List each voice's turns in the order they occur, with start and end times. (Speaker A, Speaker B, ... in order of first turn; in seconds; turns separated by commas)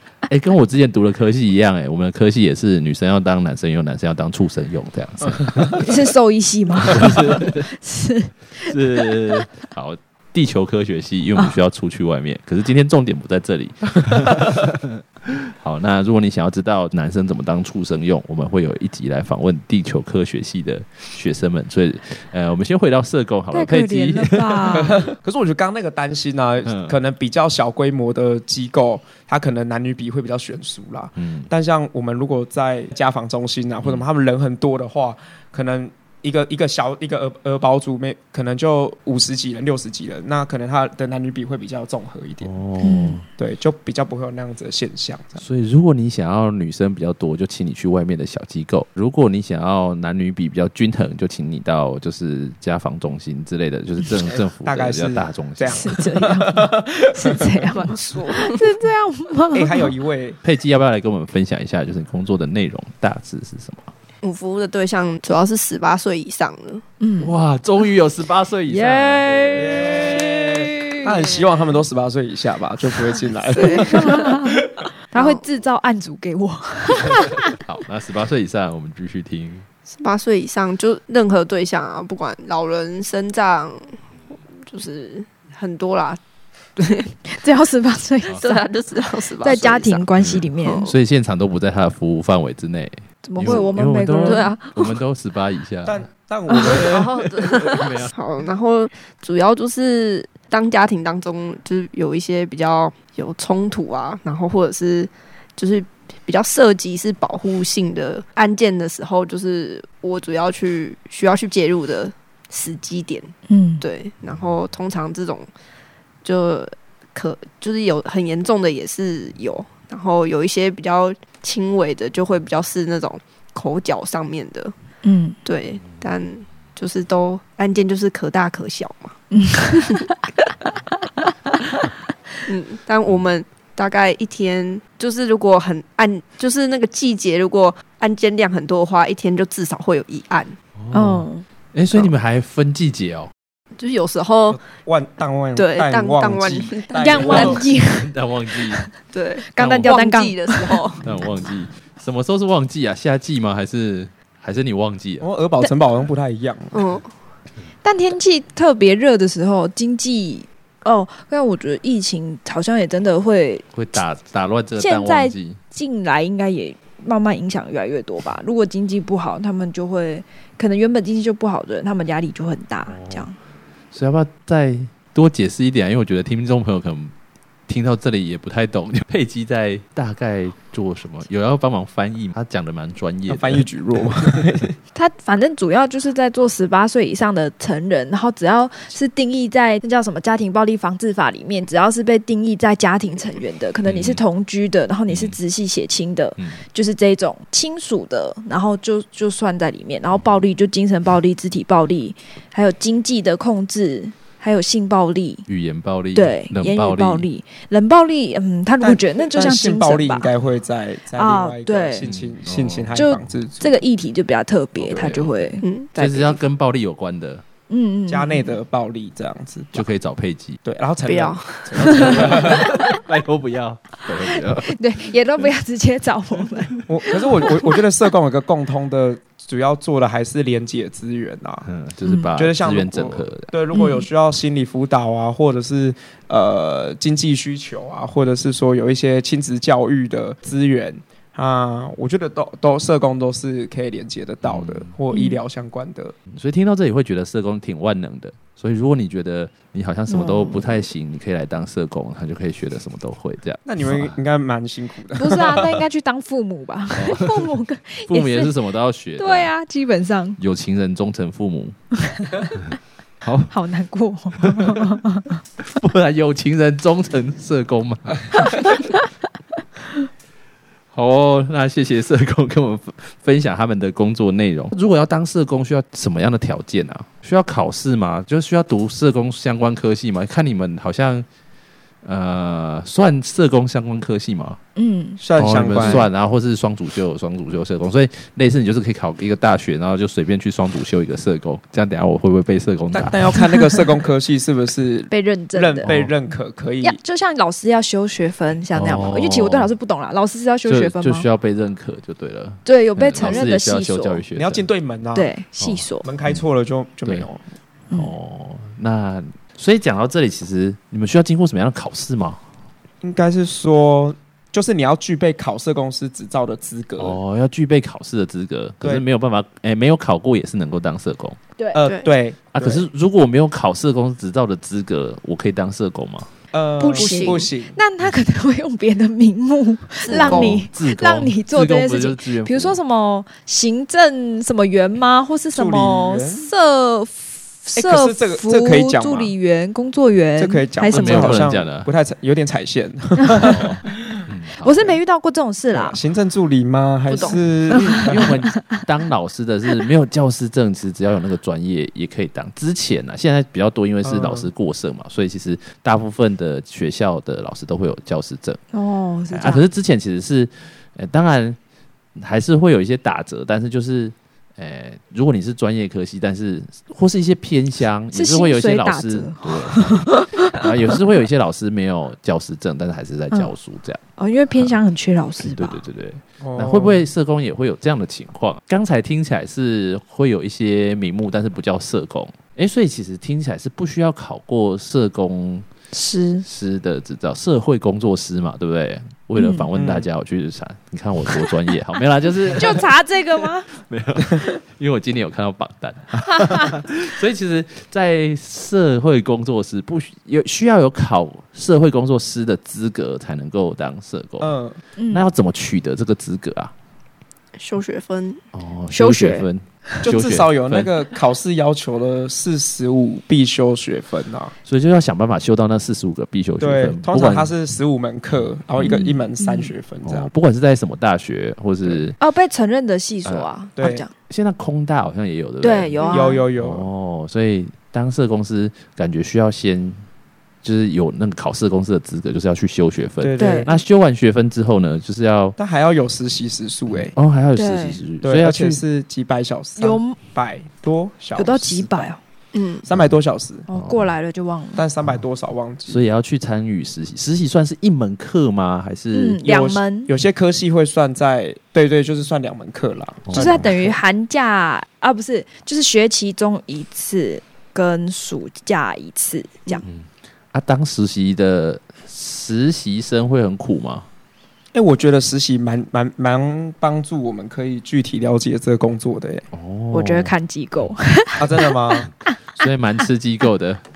Speaker A: 0.3-5.8, Speaker B: 5.7-9.5, Speaker A: 6.9-7.7, Speaker A: 8.6-25.0, Speaker B: 23.5-25.0, Speaker C: 24.8-42.5, Speaker A: 26.6-27.0, Speaker A: 31.2-31.5, Speaker A: 42.4-43.3, Speaker B: 42.8-43.2, Speaker C: 43.4-45.4, Speaker A: 45.4-55.9, Speaker C: 54.1-57.7, Speaker B: 55.7-59.9, Speaker D: 57.7-58.6, Speaker C: 59.5-60.4, Speaker A: 60.4-63.9, Speaker D: 64.2-66.8, Speaker B: 67.0-67.3, Speaker A: 67.2-69.9, Speaker B: 68.7-71.2, Speaker C: 69.6-74.3, Speaker D: 73.5-74.5, Speaker B: 73.6-77.5, Speaker D: 75.1-75.4, Speaker A: 77.5-79.7, Speaker D: 79.9-84.0, Speaker D: 84.5-86.2, Speaker D: 86.8-87.2, Speaker B: 87.3-88.6, Speaker D: 88.3-90.1, Speaker B: 89.4-90.9, Speaker A: 90.2-96.0, Speaker D: 90.6-91.0, Speaker B: 93.2-94.6, Speaker D: 94.2-94.9, Speaker C: 95.8-97.1, Speaker D: 96.5-115.5, Speaker A: 96.7-98.1, Speaker B: 113.5-113.8, Speaker D: 116.2-124.7, Speaker B: 125.0-125.4, Speaker D: 125.5-129.2, Speaker B: 129.3-130.1, Speaker D: 132.4-140.6, Speaker A: 140.8-143.3, Speaker B: 140.9-141.4, Speaker D: 143.8-144.6, Speaker C: 144.5-147.7, Speaker D: 145.6-147.7, Speaker B: 146.9-148.1, Speaker A: 147.2-148.9, Speaker D: 149.1-151.1, Speaker B: 149.5-150.8, Speaker A: 149.6-150.0, Speaker A: 151.0-155.3, Speaker C: 155.2-156.9, Speaker D: 156.7-157.1, Speaker B: 157.8-163.7, Speaker A: 163.7-165.6, Speaker B: 164.8-173.3, Speaker A: 172.9-173.3, Speaker A: 173.9-177.1, Speaker A: 177.7-183.6, Speaker C: 183.3-184.8, Speaker B: 184.9-205.4, Speaker A: 193.8-194.2, Speaker A: 195.1-195.4, Speaker A: 205.5-207.3, Speaker B: 206.1-210.3, Speaker C: 208.8-213.8, Speaker B: 211.2-212.1, Speaker A: 212.0-213.0, Speaker B: 212.9-216.4, Speaker C: 214.8-215.2, Speaker A: 214.9-217.4, Speaker D: 215.6-215.9, Speaker B: 217.7-218.6, Speaker C: 218.1-219.8, Speaker A: 219.7-220.6, Speaker C: 220.6-222.8, Speaker D: 221.1-222.3, Speaker A: 221.9-225.1, Speaker B: 224.3-227.8, Speaker C: 226.9-231.7, Speaker A: 231.7-233.5, Speaker B: 232.1-232.3, Speaker C: 232.3-246.2, Speaker B: 233.7-234.1, Speaker A: 244.4-244.9, Speaker B: 245.1-245.4, Speaker A: 246.3-254.2, Speaker B: 250.1-250.9, Speaker C: 253.7-255.8, Speaker B: 255.2-258.6, Speaker A: 256.9-257.5, Speaker A: 258.1-259.5, Speaker B: 259.2-260.4, Speaker A: 260.4-261.8, Speaker B: 262.0-262.5, Speaker A: 263.2-263.5, Speaker B: 263.5-265.4, Speaker A: 264.4-264.8, Speaker A: 265.6-268.6, Speaker B: 268.5-268.9, Speaker A: 270.9-281.3, Speaker A: 282.0-284.6, Speaker B: 284.8-285.2, Speaker C: 285.2-286.1, Speaker A: 285.4-293.3, Speaker C: 292.9-297.0, Speaker B: 295.1-295.9, Speaker A: 295.8-296.1, Speaker B: 296.8-301.3, Speaker A: 298.8-299.7, Speaker A: 300.6-304.7, Speaker B: 302.6-304.2, Speaker C: 304.4-305.3, Speaker B: 305.1-306.1, Speaker A: 305.6-306.4, Speaker C: 306.0-307.4, Speaker A: 307.9-312.4, Speaker C: 313.0-317.2, Speaker A: 317.0-321.4, Speaker B: 321.6-321.9, Speaker C: 321.7-322.9, Speaker D: 321.8-322.1, Speaker A: 322.5-326.3, Speaker C: 326.5-327.8, Speaker B: 326.8-341.4, Speaker D: 326.9-327.4, Speaker D: 330.0-330.6, Speaker A: 330.1-332.8, Speaker C: 335.5-336.5, Speaker C: 337.7-339.3, Speaker C: 340.4-343.6, Speaker A: 340.9-341.9, Speaker A: 343.4-345.0, Speaker B: 344.6-346.0, Speaker C: 345.7-348.3, Speaker D: 347.1-347.4, Speaker A: 347.7-358.6, Speaker C: 354.0-354.5, Speaker B: 358.7-359.6, Speaker A: 359.3-361.6, Speaker A: 362.2-374.0, Speaker B: 368.1-370.7, Speaker B: 374.2-375.8, Speaker A: 375.4-385.7, Speaker C: 376.4-377.1, Speaker B: 385.9-386.5, Speaker A: 386.4-392.9, Speaker B: 389.4-389.7, Speaker C: 389.8-390.1, Speaker B: 392.6-393.7, Speaker A: 393.7-404.5, Speaker C: 404.4-404.8, Speaker B: 405.0-405.2, Speaker A: 405.1-406.7, Speaker D: 407.6-408.4, Speaker A: 408.5-410.9, Speaker B: 408.9-409.5, Speaker C: 410.0-414.5, Speaker A: 414.6-417.5, Speaker C: 416.6-420.3, Speaker B: 418.8-419.7, Speaker A: 420.0-422.2, Speaker B: 422.2-424.1, Speaker C: 423.8-424.1, Speaker A: 424.3-430.1, Speaker B: 425.6-426.4, Speaker C: 426.1-426.9, Speaker A: 430.6-435.6, Speaker C: 433.2-433.8, Speaker B: 433.4-433.7, Speaker C: 435.6-437.1, Speaker A: 436.9-438.8, Speaker B: 437.6-438.0, Speaker C: 438.2-442.1, Speaker B: 439.8-440.2, Speaker B: 441.4-442.2, Speaker D: 442.5-442.9, Speaker C: 442.8-443.7, Speaker B: 443.7-444.9, Speaker A: 443.7-444.1, Speaker C: 444.8-446.0, Speaker A: 445.9-449.4, Speaker B: 449.1-450.1, Speaker C: 449.4-454.0, Speaker A: 453.2-453.7, Speaker B: 453.3-459.9, Speaker A: 459.8-464.1, Speaker C: 464.7-469.5, Speaker A: 469.5-470.9, Speaker B: 469.9-472.1, Speaker C: 471.4-472.1, Speaker A: 472.6-473.8